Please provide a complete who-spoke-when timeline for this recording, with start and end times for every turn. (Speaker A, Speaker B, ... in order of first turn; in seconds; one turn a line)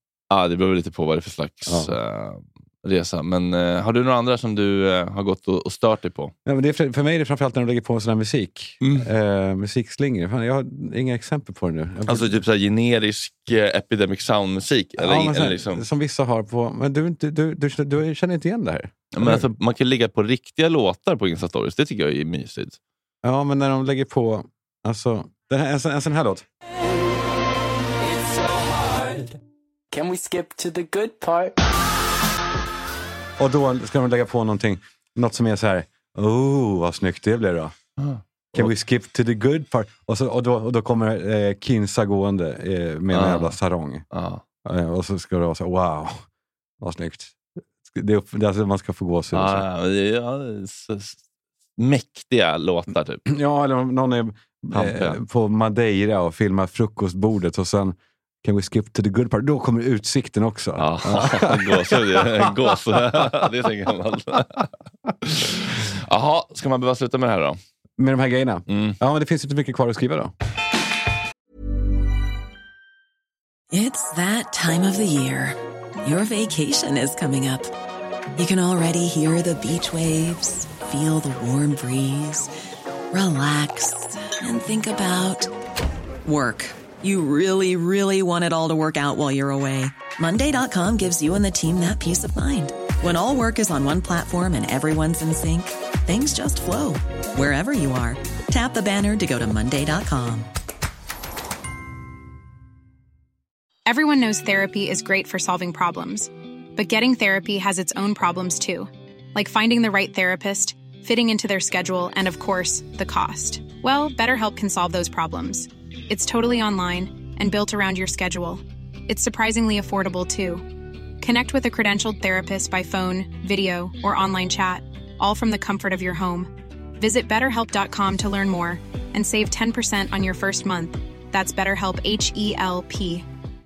Speaker A: 0.3-6.3
Speaker B: 1.7-1.9
Speaker B: 6.5-12.4
Speaker A: 8.8-9.1
Speaker A: 12.1-15.8
Speaker B: 15.0-19.5
Speaker A: 19.1-22.8
Speaker B: 23.2-26.5
Speaker C: 28.0-29.4
Speaker C: 29.9-31.6
Speaker B: 33.4-37.7
Speaker A: 38.0-38.7
Speaker B: 38.5-44.0
Speaker A: 43.1-43.6
Speaker A: 44.1-44.4
Speaker B: 44.6-46.2
Speaker B: 46.8-49.6
Speaker A: 49.3-51.2
Speaker A: 51.8-53.2
Speaker B: 53.3-63.5
Speaker A: 54.7-55.2
Speaker A: 60.8-64.7
Speaker A: 65.2-67.6
Speaker B: 68.0-70.3
Speaker A: 68.7-69.0
Speaker D: 73.7-77.7
Speaker D: 78.4-82.5
Speaker D: 83.1-85.5
Speaker D: 86.2-100.5
Speaker E: 103.9-120.7
Speaker E: 121.2-133.3